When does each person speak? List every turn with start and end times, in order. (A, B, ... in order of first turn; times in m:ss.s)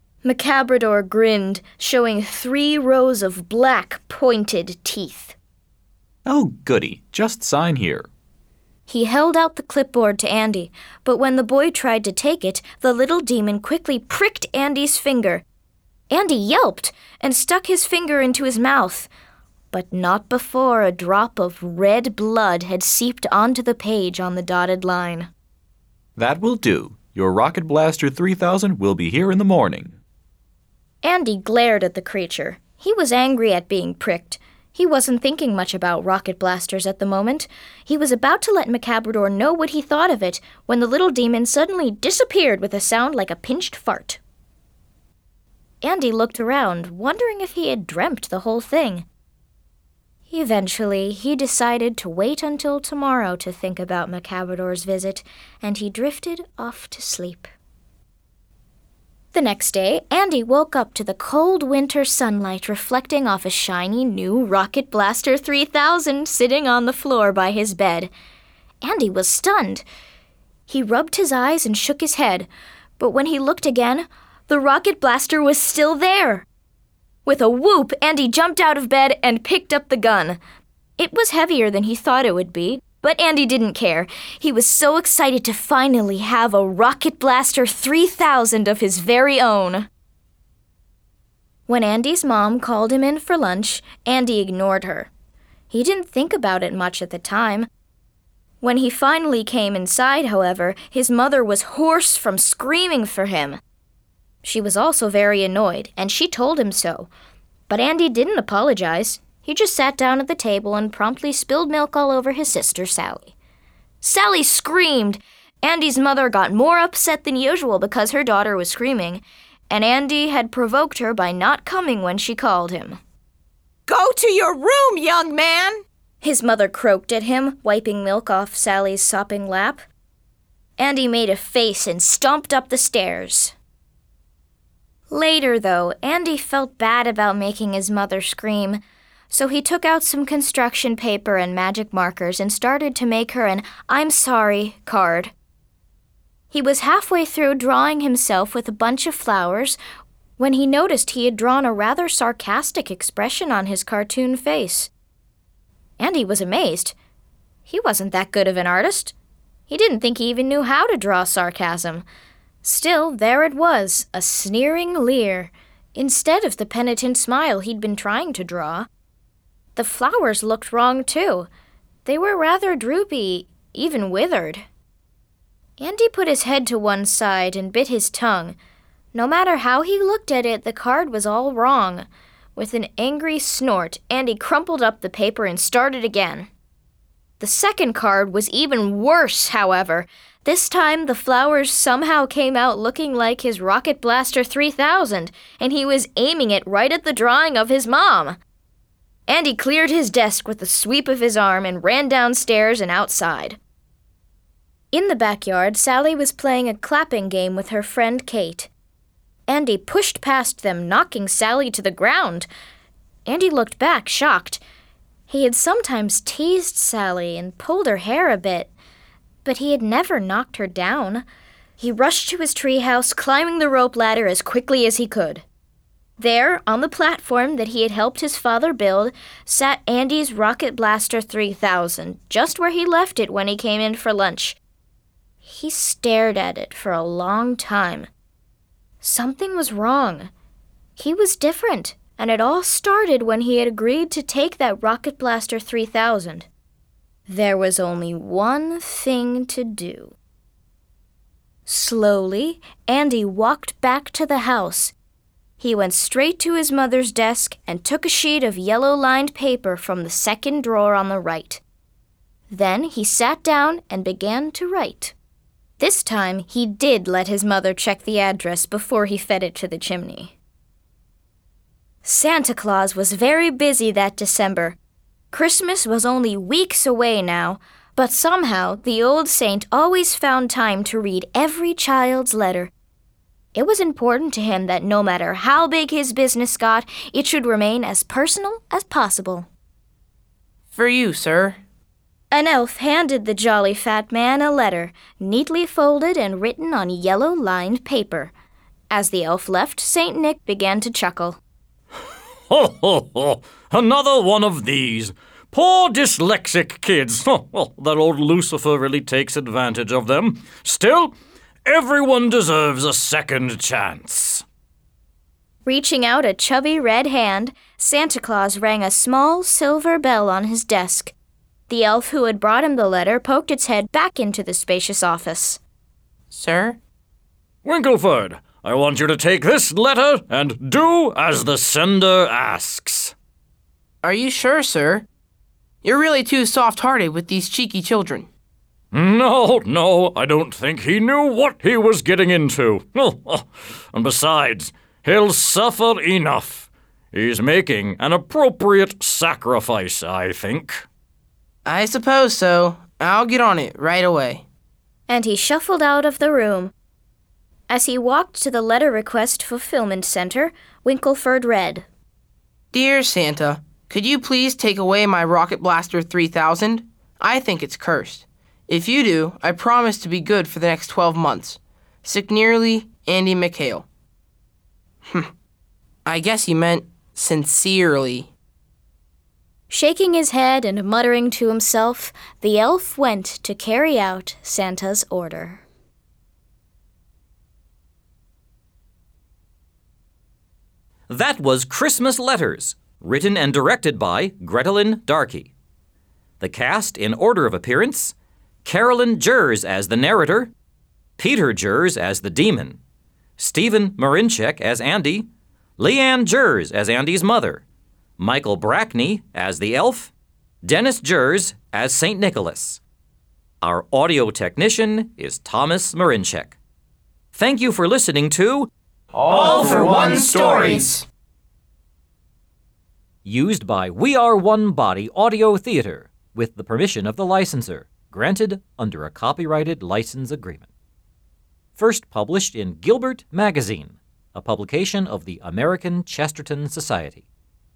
0:00.2-0:05.4 A
0:06.2-0:08.1 B
0:08.9-0:15.4 A
0:16.1-0:19.1 A
0:19.7-0:25.3 A
0:26.2-0:29.9 B
0:31.0-0:44.2 A
0:45.8-0:49.0 A
0:50.3-0:57.5 A
0:59.3-1:08.1 A
1:08.8-1:09.8 A
1:10.7-1:12.5 A
1:13.0-1:16.5 A
1:17.2-1:20.4 A
1:21.0-1:29.9 A
1:31.7-1:35.1 A
1:35.7-1:37.7 A
1:38.6-1:43.6 A
1:44.4-1:47.1 A
1:47.7-1:53.3 A
1:54.0-2:03.0 A
2:03.9-2:05.8 C
2:06.2-2:09.8 A
2:10.8-2:13.5 A
2:15.1-2:25.3 A
2:26.5-2:29.8 A
2:30.4-2:34.9 A
2:36.0-2:37.0 A
2:37.7-2:39.1 A
2:39.7-2:42.0 A
2:42.6-2:48.9 A
2:49.8-2:51.5 A
2:52.0-2:54.6 A
2:55.8-2:58.6 A
2:59.1-3:06.5 A
3:07.4-3:18.4 A
3:19.3-3:23.6 A
3:24.9-3:28.7 A
3:29.5-3:32.5 A
3:33.3-3:34.6 A
3:35.3-3:38.7 A
3:39.4-3:41.2 A
3:41.8-3:45.4 A
3:46.2-3:54.6 A
3:55.4-3:58.1 A
3:59.0-4:00.3 A
4:01.0-4:06.5 A
4:07.3-4:10.2 A
4:11.7-4:15.0 A
4:15.6-4:21.6 A
4:22.5-4:25.1 A
4:25.8-4:30.4 A
4:32.0-4:34.8 A
4:35.3-4:42.7 A
4:43.6-4:49.5 A
4:50.7-4:51.6 C
4:52.3-4:58.3 A
4:58.9-5:01.4 A
5:02.5-5:11.1 D
5:11.6-5:14.4 D
5:15.6-5:21.1 A
5:21.7-5:25.6 A
5:26.3-5:26.8 C
5:27.6-5:33.1 D
5:34.0-5:35.1 C
5:35.8-5:38.3 C
5:38.9-5:50.8 D
5:51.6-5:54.4 C
5:55.1-5:56.7 A
5:57.7-6:01.9 A
6:02.7-6:13.9 C
6:16.1-6:18.3 C
6:19.7-6:25.6 A
6:31.1-6:35.5 E
6:36.4-6:40.5 E
6:41.2-6:42.8 E
6:43.4-6:47.6 E
6:48.2-6:50.1 E
6:50.6-6:52.8 E
6:53.6-6:56.6 E
6:57.3-6:58.7 E
6:59.1-7:01.0 C
7:03.2-7:10.7 E
7:11.8-7:17.2 E